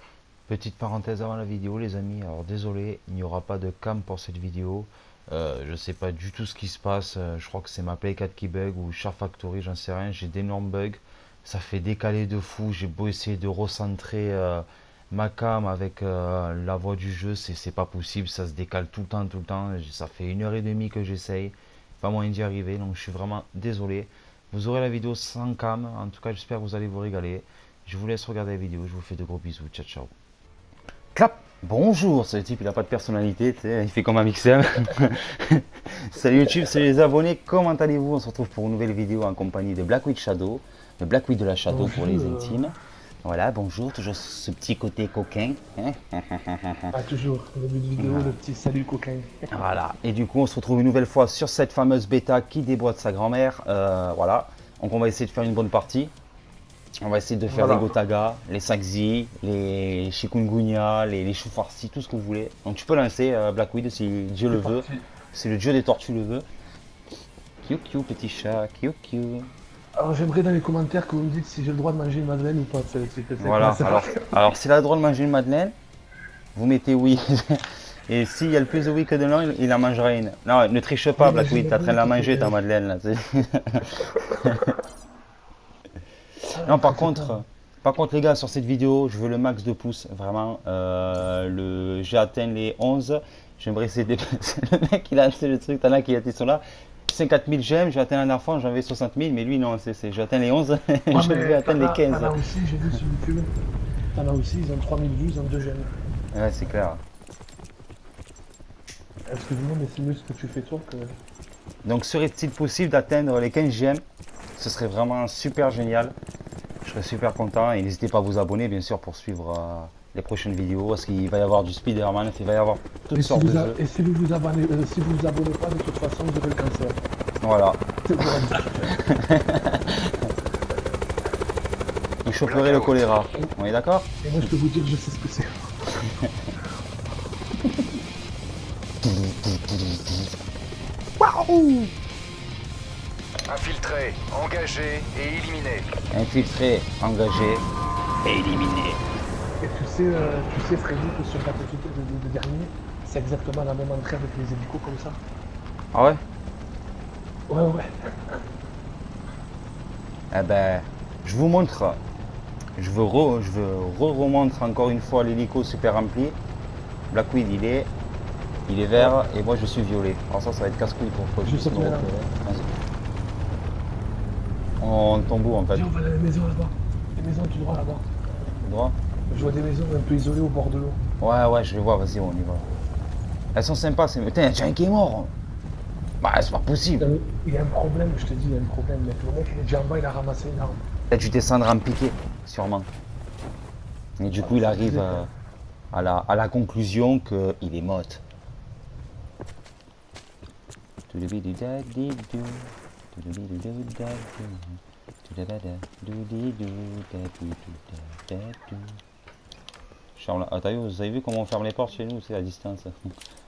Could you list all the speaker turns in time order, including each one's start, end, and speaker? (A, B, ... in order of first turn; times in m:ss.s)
0:00.5-0:30.1 A
0:31.1-0:47.0 A
0:41.7-0:42.7 B
0:46.9-0:49.6 B
0:48.0-0:48.4 A
0:49.5-0:56.1 A
0:57.0-1:06.4 A
0:57.5-0:57.9 B
1:04.5-1:05.0 B
1:07.6-1:09.5 A
1:10.0-1:14.4 B
1:13.4-1:15.7 A
1:16.5-1:24.8 A
1:21.2-1:22.6 B
1:26.5-1:27.4 B
1:26.6-1:42.4 A
1:41.1-1:43.5 B
1:44.1-1:45.9 B
1:46.3-1:47.0 A
1:49.3-1:51.2 B
1:51.8-1:54.0 A
1:54.6-1:56.2 A
1:56.8-2:03.8 A
2:03.1-2:07.0 B
2:07.4-2:10.3 A
2:08.0-2:09.0 B
2:12.2-2:14.5 A
2:12.4-2:13.1 C
2:14.2-2:16.1 B
2:16.1-2:16.3 A
2:19.0-2:20.4 A
2:21.2-2:21.9 A
2:23.5-2:25.8 C
2:26.1-2:27.7 A
2:28.2-2:29.0 A
2:29.6-2:35.2 B
2:35.9-2:36.2 A
2:37.5-2:38.4 B
2:40.3-2:42.0 A
2:42.8-2:46.4 A
2:47.1-2:47.9 A
2:48.7-2:52.7 A
2:51.4-2:52.1 B
2:54.8-2:55.9 A
2:55.7-2:58.1 B
2:58.6-2:59.0 A
2:59.3-3:01.0 B
3:01.2-3:02.7 A
3:03.5-3:05.3 A
3:06.2-3:07.1 A
3:07.0-3:10.8 B
3:11.1-3:12.9 A
3:14.2-3:15.3 A
3:14.3-3:15.3 B
3:15.9-3:18.2 A
3:21.1-3:29.0 A
3:30.2-3:33.1 A